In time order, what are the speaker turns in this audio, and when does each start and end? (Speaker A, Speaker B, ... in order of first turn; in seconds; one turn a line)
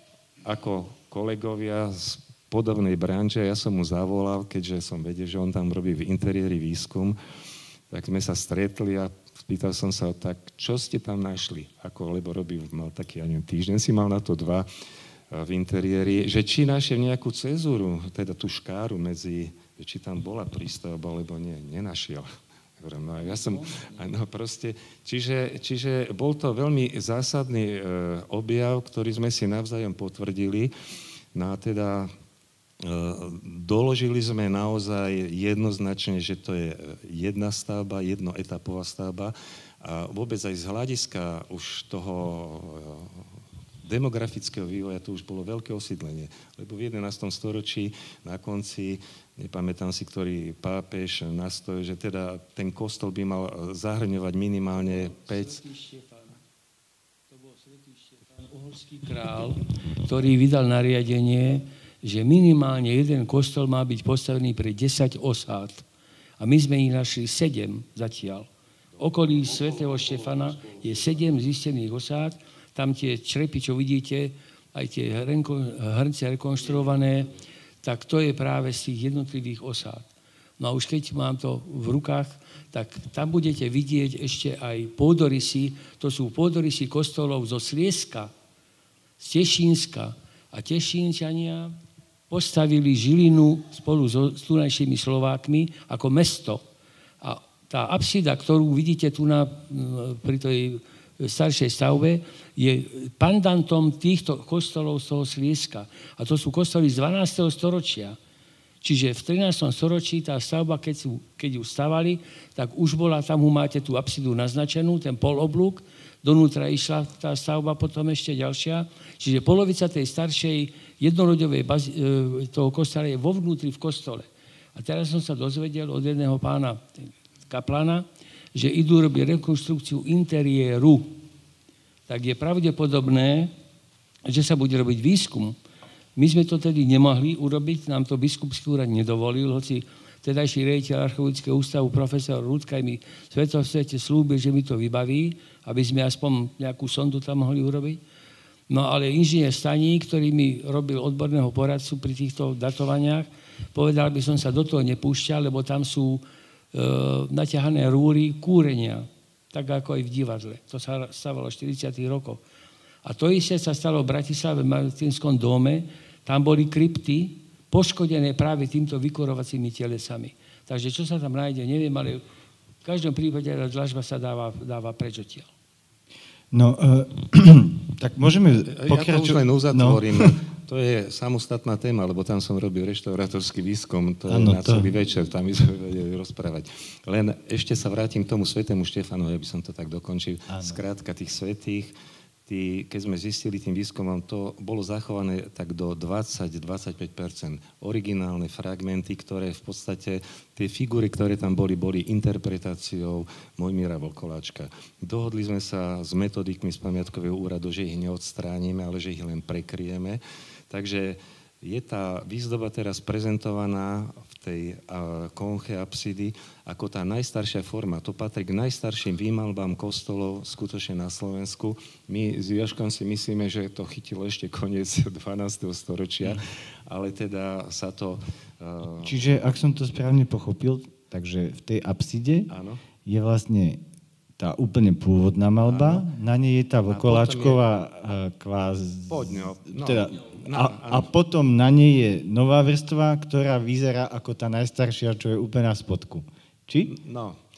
Speaker A: 0.4-7.2
Speaker A: 7.9-14.7
Speaker A: 15.3-22.3
Speaker A: 22.8-30.7
Speaker A: 31.3-32.1
Speaker A: 32.8-43.3
Speaker A: 43.8-55.6
Speaker B: 54.8-56.4
Speaker B: 57.3-65.8
Speaker B: 66.4-88.3
Speaker B: 89.2-91.8
Speaker B: 92.3-96.6
Speaker B: 97.2-108.2
Speaker B: 108.8-131.2
Speaker B: 132.1-133.5
Speaker B: 134.2-135.6
Speaker B: 136.2-148.0
Speaker B: 148.7-162.4
Speaker B: 163.0-172.2
Speaker B: 172.8-175.5
Speaker C: 176.5-180.3
Speaker A: 178.7-191.9
Speaker C: 184.3-184.9
Speaker C: 190.5-190.8
Speaker A: 192.5-229.2
Speaker C: 229.0-232.5
Speaker A: 232.5-232.8
Speaker C: 233.0-233.8
Speaker C: 234.4-246.9
Speaker A: 235.6-236.1
Speaker A: 236.8-237.6
Speaker A: 239.1-241.1
Speaker A: 246.9-247.4